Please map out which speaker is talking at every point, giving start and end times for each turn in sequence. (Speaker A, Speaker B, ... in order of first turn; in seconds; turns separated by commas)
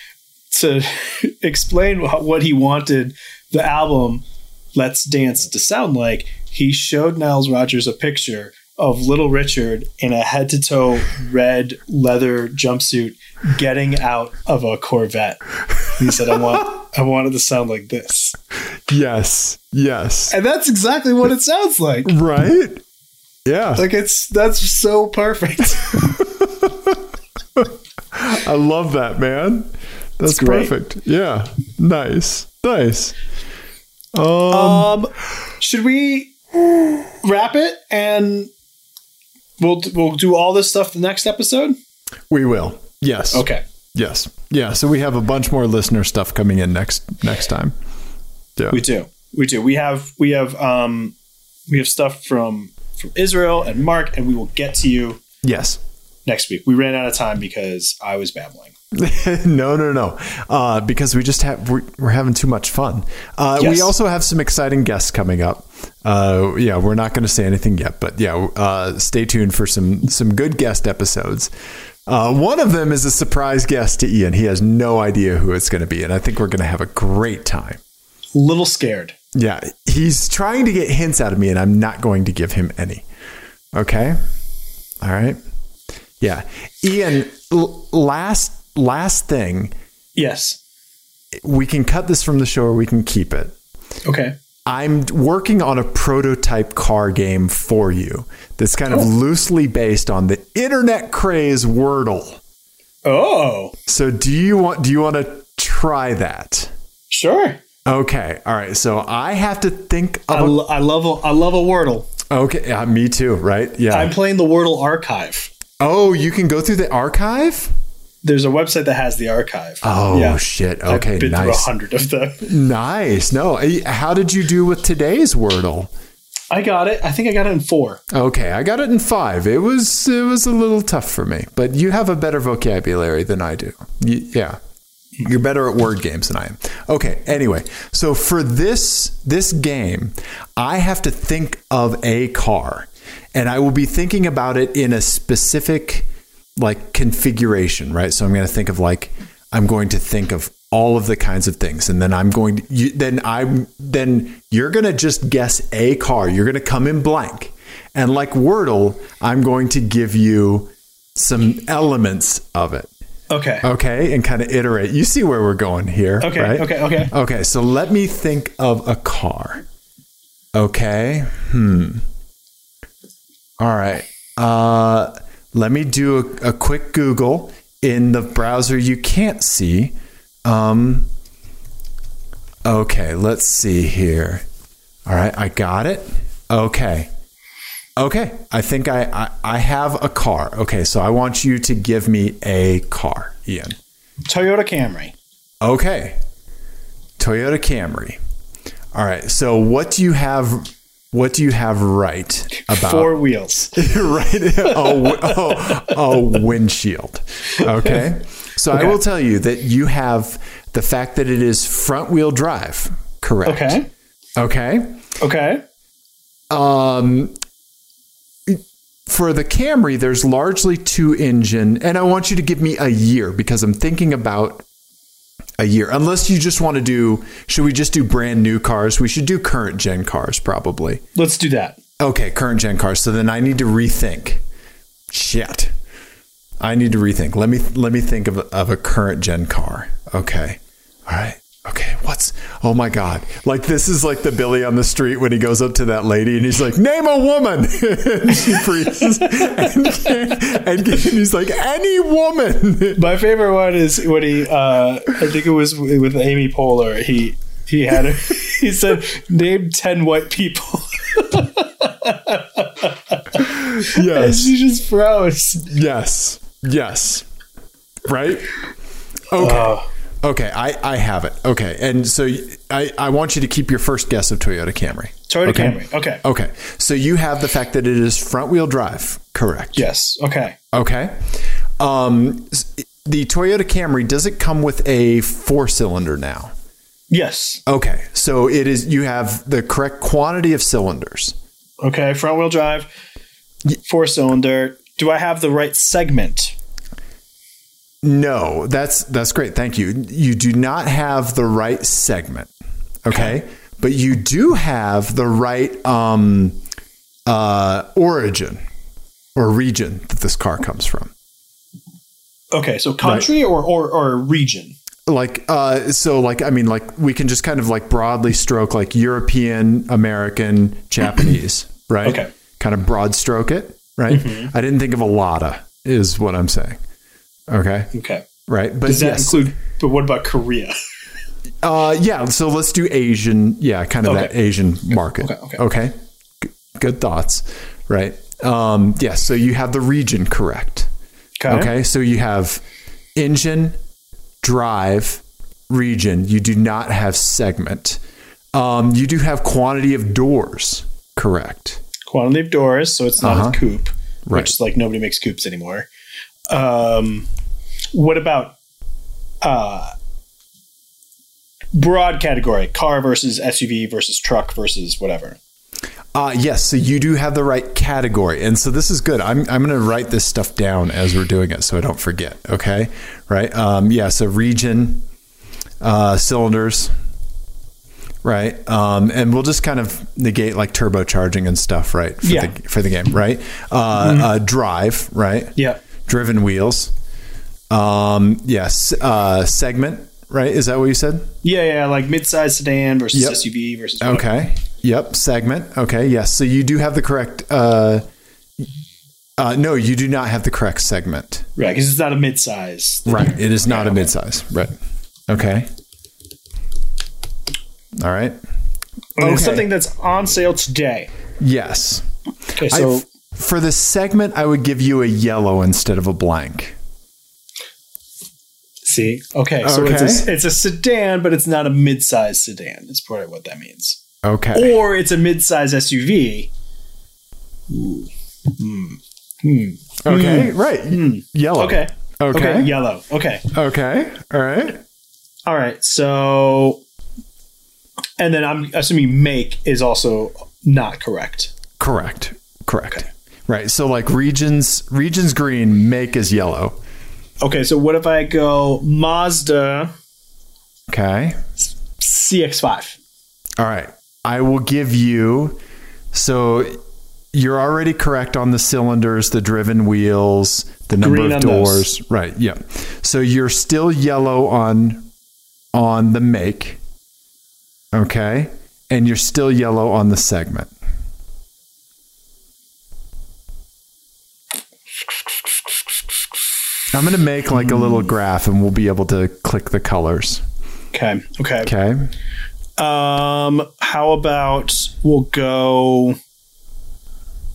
Speaker A: 0.5-18.4, Speaker B: 18.9-20.4, Speaker A: 20.3-22.1, Speaker B: 22.1-22.8, Speaker B: 23.5-23.8, Speaker A: 23.8-26.1, Speaker B: 26.0-27.0, Speaker B: 27.6-33.2, Speaker A: 30.3-30.7, Speaker B: 34.1-35.0, Speaker A: 34.5-36.4, Speaker A: 37.1-38.5, Speaker A: 39.6-41.8, Speaker B: 42.3-47.8, Speaker A: 43.3-43.6, Speaker A: 48.7-51.1, Speaker A: 51.7-55.2, Speaker B: 55.4-55.8, Speaker A: 56.3-58.7, Speaker B: 58.9-71.5, Speaker A: 63.6-63.9, Speaker B: 72.1-77.8, Speaker A: 78.3-79.2, Speaker B: 79.3-83.0, Speaker B: 83.7-84.2, Speaker B: 85.0-85.4, Speaker B: 86.2-89.7, Speaker A: 90.2-90.6, Speaker B: 91.3-93.5, Speaker A: 94.0-94.3, Speaker B: 94.7-102.4, Speaker A: 103.0-103.7, Speaker B: 103.9-106.7, Speaker A: 107.1-107.6, Speaker B: 107.9-110.6, Speaker A: 110.3-112.1, Speaker B: 112.3-114.2, Speaker A: 113.9-115.5, Speaker B: 115.8-117.7, Speaker A: 118.2-122.5, Speaker B: 119.8-121.7, Speaker B: 122.4-125.9, Speaker A: 126.5-128.0, Speaker B: 128.1-134.6, Speaker B: 135.2-162.9, Speaker A: 163.3-163.7, Speaker B: 163.6-169.7, Speaker A: 166.2-167.1, Speaker B: 170.5-172.1, Speaker B: 173.6-181.1, Speaker B: 182.7-184.4, Speaker B: 185.1-187.1, Speaker B: 188.0-193.8, Speaker A: 194.3-195.1, Speaker B: 195.6-196.2, Speaker B: 197.2-198.2, Speaker B: 198.9-203.1, Speaker A: 202.7-203.9, Speaker B: 203.7-213.8, Speaker A: 204.7-205.9, Speaker A: 208.7-209.0, Speaker A: 213.4-213.9, Speaker B: 214.4-215.0, Speaker A: 215.2-215.6, Speaker B: 216.5-217.3, Speaker B: 218.5-224.7, Speaker B: 225.6-231.0, Speaker A: 231.2-231.8, Speaker B: 232.0-234.4, Speaker B: 235.1-235.7, Speaker B: 236.6-253.1, Speaker A: 253.0-265.7, Speaker B: 263.4-264.5, Speaker B: 265.7-267.2, Speaker B: 268.1-268.5, Speaker B: 269.3-279.8, Speaker A: 269.4-269.9, Speaker A: 275.3-276.2, Speaker A: 279.8-280.6, Speaker B: 280.7-281.3, Speaker B: 281.8-286.5, Speaker A: 287.1-287.6, Speaker B: 287.7-291.4, Speaker A: 291.8-292.9, Speaker A: 293.8-296.6, Speaker B: 298.0-302.5, Speaker B: 303.0-306.6, Speaker B: 307.3-308.6, Speaker B: 309.4-311.1, Speaker A: 312.5-314.8, Speaker B: 313.0-313.3, Speaker B: 315.1-326.8, Speaker A: 322.1-322.3, Speaker A: 324.1-324.5, Speaker B: 327.5-327.9, Speaker A: 327.9-328.3, Speaker B: 328.5-329.5, Speaker A: 328.9-330.8, Speaker B: 331.6-340.9, Speaker A: 334.1-334.4, Speaker A: 335.2-335.6, Speaker A: 341.4-341.7, Speaker B: 341.5-342.6, Speaker B: 343.2-343.8, Speaker B: 344.4-348.0, Speaker B: 348.5-351.8, Speaker A: 352.1-355.9, Speaker B: 353.2-353.6, Speaker B: 354.3-354.5, Speaker A: 356.5-357.3, Speaker A: 357.9-358.6, Speaker A: 359.4-359.9, Speaker A: 361.7-365.4, Speaker B: 366.1-375.1, Speaker B: 375.8-376.9, Speaker B: 378.2-385.6, Speaker A: 382.2-382.6, Speaker A: 384.0-384.3, Speaker A: 385.6-385.8, Speaker B: 386.1-386.9, Speaker B: 387.7-391.3, Speaker A: 391.4-394.3, Speaker B: 393.1-393.4, Speaker B: 394.0-398.1, Speaker B: 399.4-401.5, Speaker A: 401.6-404.1, Speaker B: 403.1-404.8, Speaker B: 405.3-405.7, Speaker B: 408.0-408.4, Speaker A: 409.2-411.1, Speaker B: 409.2-409.7, Speaker B: 411.4-412.1, Speaker A: 412.6-413.1, Speaker B: 412.7-416.8, Speaker A: 418.8-424.0, Speaker B: 419.6-420.3, Speaker B: 424.2-424.8, Speaker A: 424.5-426.5, Speaker A: 427.7-433.5, Speaker B: 430.1-432.7, Speaker B: 433.5-434.8, Speaker A: 435.5-436.8, Speaker A: 438.2-441.5, Speaker B: 441.8-446.8, Speaker A: 447.4-449.9, Speaker B: 450.9-451.4, Speaker A: 452.0-453.0, Speaker B: 453.6-455.6, Speaker B: 456.1-456.8, Speaker B: 457.3-465.1, Speaker A: 461.0-461.9, Speaker B: 465.7-466.8, Speaker B: 467.9-470.7, Speaker B: 476.9-480.4, Speaker A: 477.7-478.0, Speaker A: 480.9-481.7, Speaker B: 481.6-482.1, Speaker A: 482.8-486.2